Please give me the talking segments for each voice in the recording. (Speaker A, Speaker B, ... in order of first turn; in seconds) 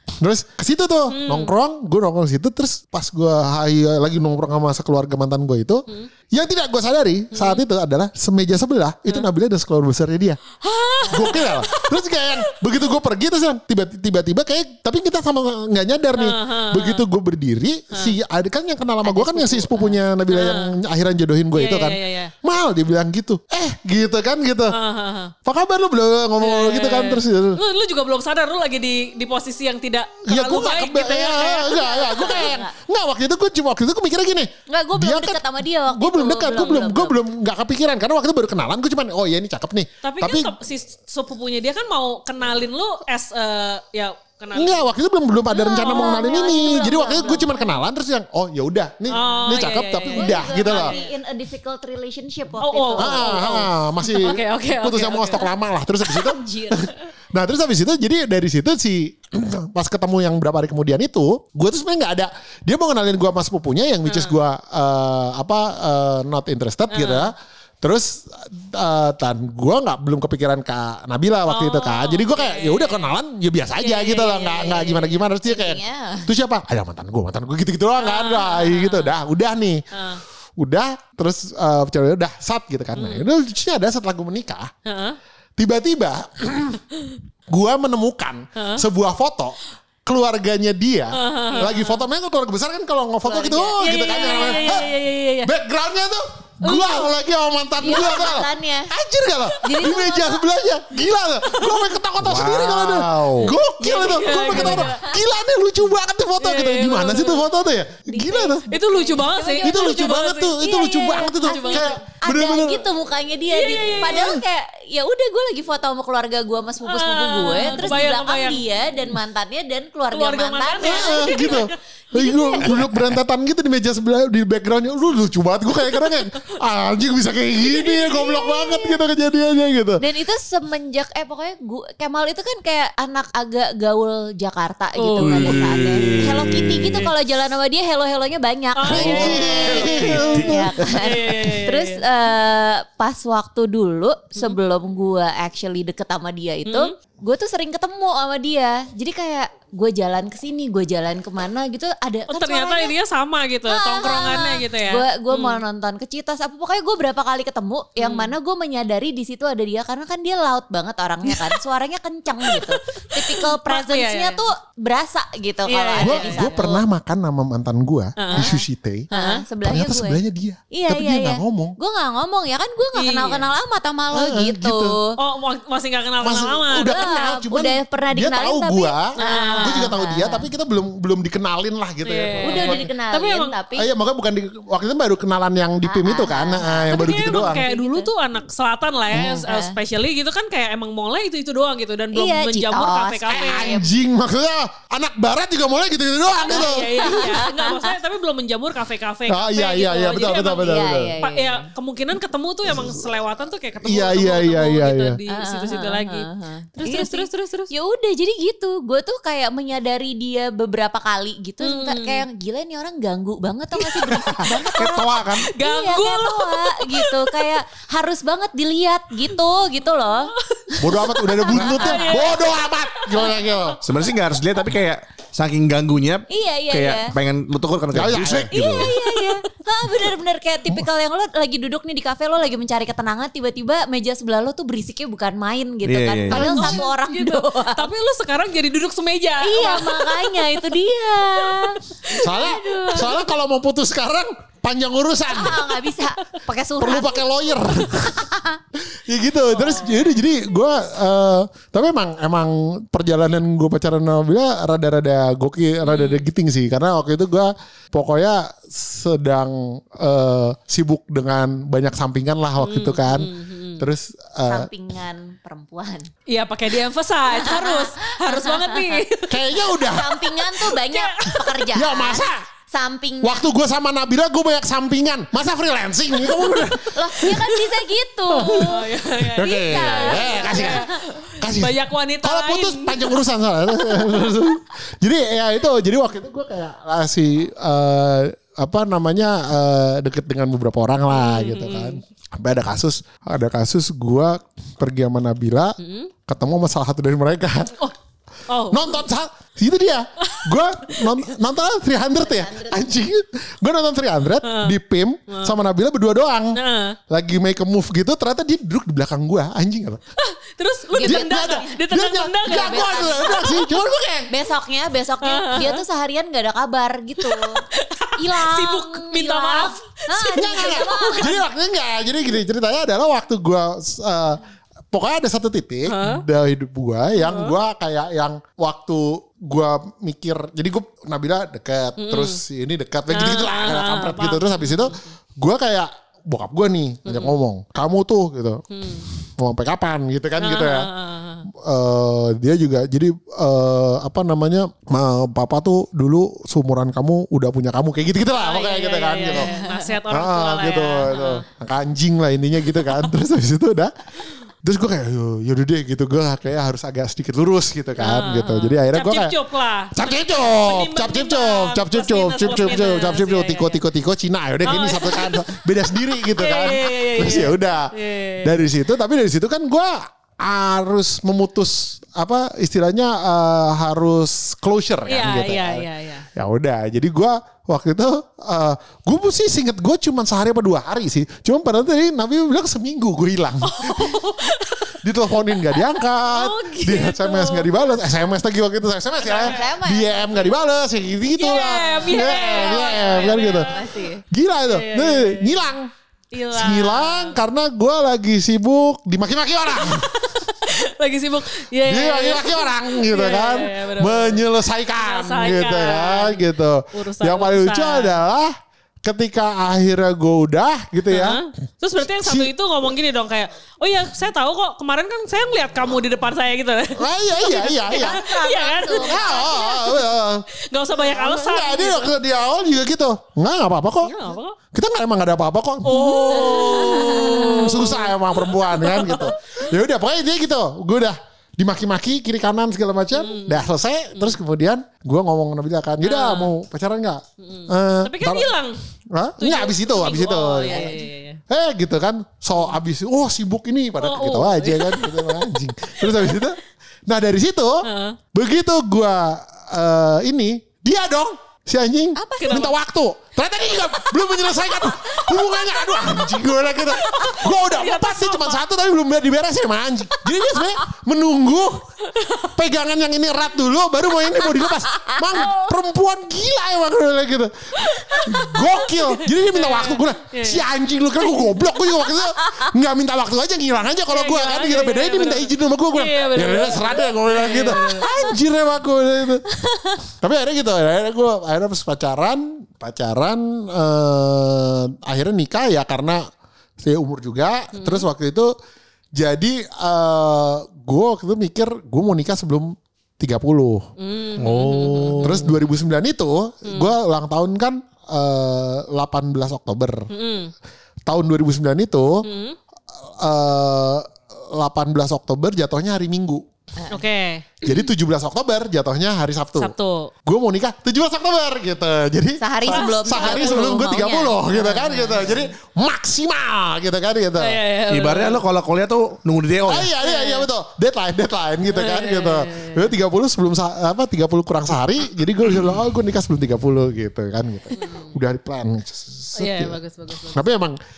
Speaker A: 0.2-10.4, 11.1-24.7, 25.4-27.6, 30.2-40.5, 44.5-50.9, 53.0-79.8, 80.6-84.7, 85.6-86.8, 87.5-89.5, 90.1-94.9, 95.4-108.7, 109.6-112.8, 114.1-114.4, 120.8-130.0, 138.9-141.1, 166.0-169.1, 169.6-171.8, 174.1-174.9, 176.2-182.9, 183.8-187.6, 189.1-189.4, 193.3-197.2, 199.3-201.1, 202.7-203.0, 203.8-205.2, 220.8-223.8, 227.9-228.5, 236.4-236.8, 242.2-245.9, 246.8-248.3, 248.9-264.7, 269.3-270.3, 271.7-272.4, 273.2-277.4, 278.3-297.7, 298.7-306.6, 307.1-310.0, 311.0-314.3, 320.4-338.6, 339.2-340.9, 341.6-349.5, 350.1-353.9, 354.6-359.3, 359.9-384.2, 385.0-393.7, 394.3-395.9, 396.5-400.5, 401.8-408.5, 409.0-411.4, 412.0-412.5, 417.0-418.2, 418.9-420.4, 421.0-424.1, 424.7-438.5, 439.1-440.9, 441.5-461.8, 462.3-479.4, 480.2-486.2, 486.8-488.5, 489.2-493.8, 495.2-500.1, 501.1-502.2, 503.2-506.4, 507.6-509.7, 510.2-517.6, 519.7-529.8, 530.3-530.8
Speaker B: 1.1-1.5, 7.3-7.6, 10.6-12.4, 16.1-17.0, 20.3-20.7, 21.5-22.3, 24.7-25.3, 26.4-32.6, 40.0-44.9, 45.6-47.0, 49.1-51.1, 52.6-55.5, 64.0-64.3, 66.9-67.3, 71.5-73.1, 73.8-75.0, 78.0-79.1, 79.9-80.2, 82.9-83.3, 84.8-85.2, 88.6-88.8, 91.2-92.0, 93.3-95.5, 101.4-101.9, 103.4-105.1, 106.4-107.5, 108.7-110.7, 111.4-111.9, 113.5-114.4, 116.8-118.6, 120.1-121.7, 135.0-136.2, 138.8-142.0, 146.6-146.9, 152.3-155.6, 158.0-158.3, 161.2-161.6, 162.4-164.5, 165.7-166.8, 168.2-168.6, 169.1-169.4, 172.9-173.5, 175.2-177.0, 179.2-179.9, 182.1-183.5, 186.9-193.8, 196.4-206.3, 206.8-207.7, 211.6-212.2, 214.1-215.0, 215.5-217.5, 221.4-223.9, 228.7-229.3, 236.3-240.7, 241.5-242.9, 249.5-250.2, 255.8-256.3, 262.6-263.8, 266.3-269.7, 270.4-271.6, 277.2-277.7, 278.4-283.1, 283.7-284.1, 291.1-292.0, 295.8-296.1, 298.5-299.0, 304.4-304.7, 305.3-305.5, 306.5-307.0, 310.2-313.4, 315.2-315.8, 317.2-321.4, 325.9-326.2, 327.1-327.6, 332.0-332.4, 333.1-335.1, 337.1-337.4, 338.7-339.1, 340.4-341.4, 348.4-351.4, 358.0-363.8, 364.6-365.5, 366.4-368.6, 375.1-376.3, 383.6-384.9, 385.7-387.9, 389.2-389.7, 391.3-394.1, 394.7-395.7, 396.3-397.4, 399.7-408.2, 411.1-417.0, 417.9-420.0, 420.7-422.1, 424.0-424.6, 425.8-429.3, 433.1-434.4, 436.0-436.5, 437.4-438.8, 439.4-441.4, 444.0-445.4, 446.0-446.5, 447.8-448.2, 452.3-452.7, 454.8-456.3, 456.9-458.6, 462.1-462.5, 465.3-465.8, 467.8-470.6, 474.1-478.1, 487.7-488.1, 494.0-495.5, 500.1-500.5, 502.2-502.6, 506.9-507.9, 509.6-510.1, 512.7-513.7, 514.7-515.3, 517.4-518.4, 520.0-520.5, 521.7-522.9, 527.7-528.1, 529.4-530.4
Speaker C: 19.0-20.0, 31.7-32.7, 34.7-37.1, 45.5-47.8, 49.1-49.6, 50.1-53.6, 56.1-56.9, 75.1-76.3, 94.1-94.7, 96.7-97.1, 97.8-98.9, 99.6-100.4, 104.5-105.2, 108.1-109.8, 110.6-122.8, 127.9-128.9, 130.0-152.9, 153.7-166.6, 169.1-170.2, 170.7-175.2, 176.8-180.5, 182.4-183.9, 185.8-188.1, 189.1-189.7, 192.1-193.8, 197.0-197.9, 200.6-201.7, 205.3-222.5, 226.3-227.1, 228.5-237.9, 239.4-243.2, 245.3-247.2, 248.1-248.6, 264.4-266.1, 267.3-269.0, 269.7-273.4, 276.8-278.9, 279.6-280.9, 302.2-302.8, 310.9-311.8, 312.4-313.7, 314.3-317.6, 318.2-321.4, 349.3-349.9, 389.3-390.5, 392.1-394.2, 417.4-419.9, 426.3-427.7, 440.6-441.1, 452.2-452.6, 478.0-478.3, 479.6-480.0, 512.4-515.4
Speaker D: 102.2-103.4, 135.4-137.1, 139.8-140.6, 214.7-215.5, 223.8-228.9, 235.8-236.5, 494.4-495.4, 517.9-519.9